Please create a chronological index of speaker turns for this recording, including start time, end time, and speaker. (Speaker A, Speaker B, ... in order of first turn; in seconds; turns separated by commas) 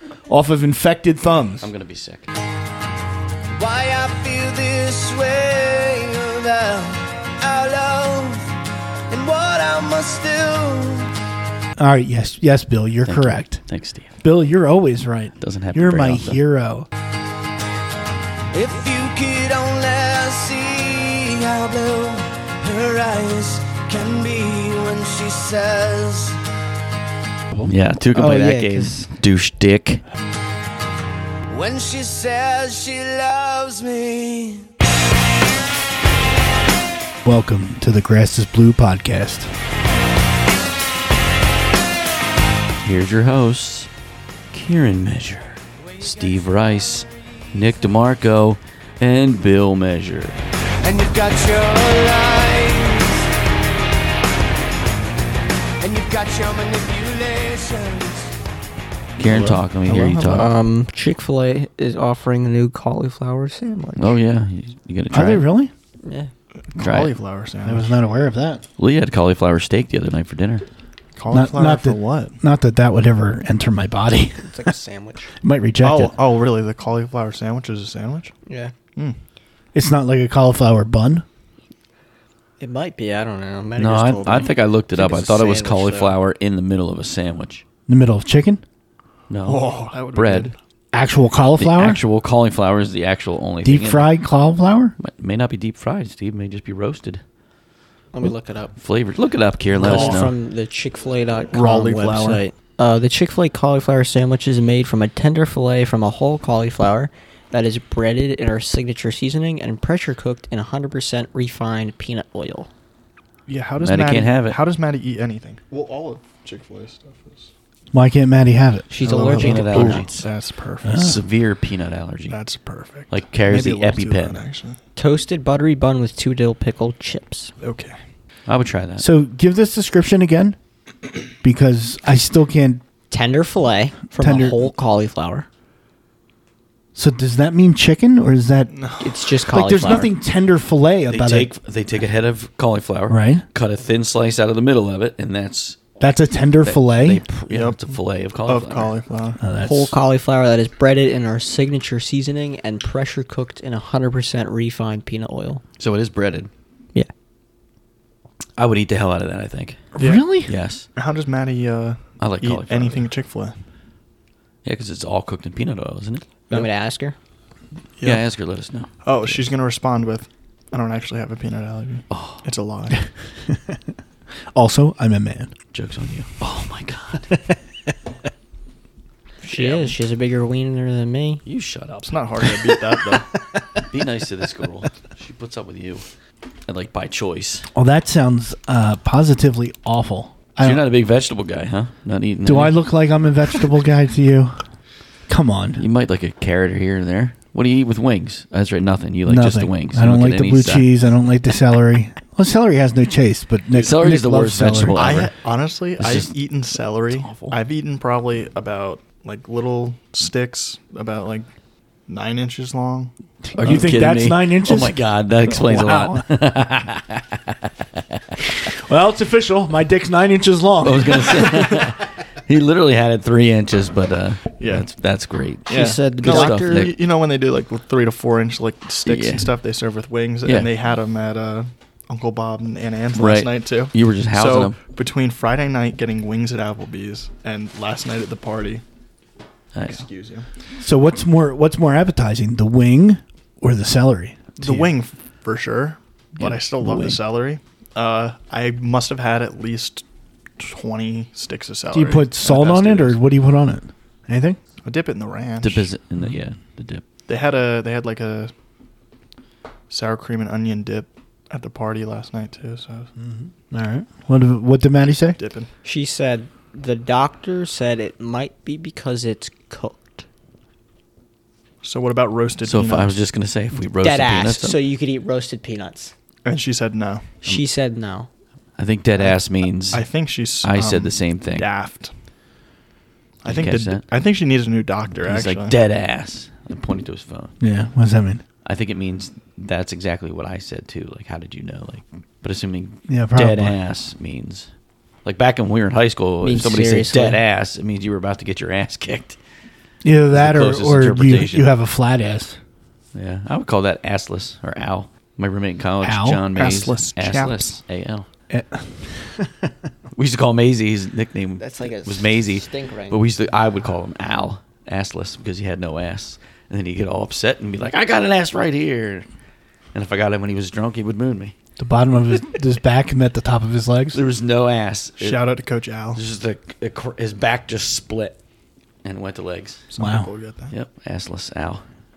Speaker A: 0.3-1.7, Speaker B: 1.6-2.3, Speaker C: 3.5-8.6, Speaker C: 9.1-11.1, Speaker A: 11.8-13.6, Speaker B: 13.1-14.1, Speaker A: 14.2-16.9, Speaker B: 15.4-16.4, Speaker C: 18.5-26.4, Speaker D: 27.5-29.1, Speaker B: 27.7-30.0, Speaker C: 31.5-34.7, Speaker A: 37.2-39.5, Speaker B: 42.8-43.9, Speaker B: 44.5-50.4, Speaker C: 50.8-53.3, Speaker C: 55.8-58.3, Speaker B: 59.2-60.5, Speaker E: 59.2-60.6, Speaker D: 60.3-64.2, Speaker B: 64.0-65.4, Speaker A: 65.1-65.7, Speaker D: 66.0-66.3, Speaker E: 66.7-67.9, Speaker B: 66.8-67.2, Speaker A: 67.6-68.6, Speaker B: 68.8-70.7, Speaker E: 71.2-72.4, Speaker A: 71.3-74.7, Speaker D: 74.4-75.3, Speaker A: 75.4-76.1, Speaker E: 75.8-78.3, Speaker D: 78.5-78.7, Speaker A: 79.8-81.2, Speaker D: 82.6-86.2, Speaker B: 83.8-87.6, Speaker A: 87.9-88.6, Speaker B: 89.3-90.5, Speaker E: 89.5-90.6, Speaker A: 90.9-92.0, Speaker B: 91.6-94.1, Speaker A: 93.6-95.0, Speaker B: 95.0-97.2, Speaker D: 98.1-98.7, Speaker B: 98.8-100.3, Speaker E: 99.7-100.3, Speaker D: 99.8-112.7, Speaker E: 101.5-102.4, Speaker E: 113.5-117.5, Speaker B: 113.8-114.6, Speaker A: 117.9-118.9, Speaker D: 118.9-120.0, Speaker E: 119.0-121.2, Speaker B: 119.2-120.2, Speaker A: 120.8-121.2, Speaker B: 120.9-122.4, Speaker E: 122.3-124.8, Speaker B: 123.1-124.5, Speaker D: 125.0-127.5, Speaker E: 127.6-128.0, Speaker B: 128.5-129.1, Speaker A: 129.0-130.6, Speaker A: 131.4-132.8, Speaker D: 133.1-135.5, Speaker A: 134.2-134.7, Speaker A: 136.9-138.7, Speaker E: 138.7-139.1, Speaker D: 139.0-140.1, Speaker A: 139.5-141.5, Speaker B: 141.1-145.8, Speaker A: 143.1-143.4, Speaker A: 146.0-147.2, Speaker B: 146.6-149.0, Speaker E: 147.5-149.4, Speaker A: 149.4-149.9, Speaker D: 149.6-155.6, Speaker B: 155.8-156.5, Speaker B: 158.6-159.9, Speaker A: 160.0-160.5, Speaker E: 160.0-160.3, Speaker B: 160.5-160.9, Speaker E: 161.0-163.6, Speaker B: 162.2-163.1, Speaker B: 164.6-166.2, Speaker D: 166.5-167.2, Speaker B: 168.0-169.5, Speaker E: 169.0-173.1, Speaker B: 172.1-172.4, Speaker A: 173.5-173.8, Speaker A: 174.5-175.5, Speaker B: 175.7-177.4, Speaker D: 179.4-181.4, Speaker B: 181.5-182.5, Speaker E: 182.1-183.3, Speaker B: 183.9-186.1, Speaker B: 186.7-187.7, Speaker A: 187.8-190.8, Speaker B: 190.6-192.8, Speaker A: 192.4-194.6, Speaker A: 195.3-195.8, Speaker B: 195.8-200.9, Speaker A: 199.3-205.2, Speaker B: 203.7-205.3, Speaker E: 204.9-211.5, Speaker B: 206.0-206.3, Speaker B: 207.1-207.6, Speaker E: 212.1-213.1, Speaker A: 213.6-216.3, Speaker B: 213.6-217.6, Speaker A: 218.7-221.2, Speaker B: 220.8-226.9, Speaker E: 224.6-224.9, Speaker E: 225.7-238.8, Speaker D: 225.7-226.9, Speaker B: 229.1-229.5, Speaker B: 230.4-230.7, Speaker B: 233.2-234.8, Speaker B: 239.7-240.1, Speaker E: 239.9-240.5, Speaker A: 240.8-244.9, Speaker E: 244.6-250.1, Speaker B: 246.4-247.2, Speaker E: 250.6-253.2, Speaker A: 251.9-254.6, Speaker E: 254.8-255.9, Speaker B: 255.6-257.0, Speaker E: 257.3-258.5, Speaker E: 259.9-263.1, Speaker A: 263.2-265.4, Speaker E: 265.4-265.7, Speaker D: 265.8-270.2, Speaker E: 271.8-273.2, Speaker B: 272.6-274.8, Speaker D: 274.0-276.1, Speaker E: 276.4-277.3, Speaker D: 277.4-278.3, Speaker B: 278.8-280.1, Speaker E: 279.9-282.1, Speaker B: 280.6-281.7, Speaker E: 283.4-285.8, Speaker B: 283.4-284.1, Speaker B: 285.2-287.5, Speaker A: 287.6-288.4, Speaker B: 288.6-294.7, Speaker A: 293.1-293.8, Speaker B: 295.2-299.4, Speaker D: 296.4-297.4, Speaker A: 300.0-302.6, Speaker B: 300.3-301.7, Speaker B: 303.1-308.3, Speaker A: 306.0-306.4, Speaker E: 306.6-307.8, Speaker A: 308.5-309.7, Speaker B: 310.2-319.3, Speaker D: 311.6-313.2, Speaker B: 319.9-321.5, Speaker A: 321.8-324.2, Speaker B: 324.1-325.4, Speaker E: 325.2-326.2, Speaker B: 326.1-328.4, Speaker B: 329.0-329.9, Speaker E: 329.9-330.7, Speaker A: 330.0-330.3, Speaker B: 330.7-331.9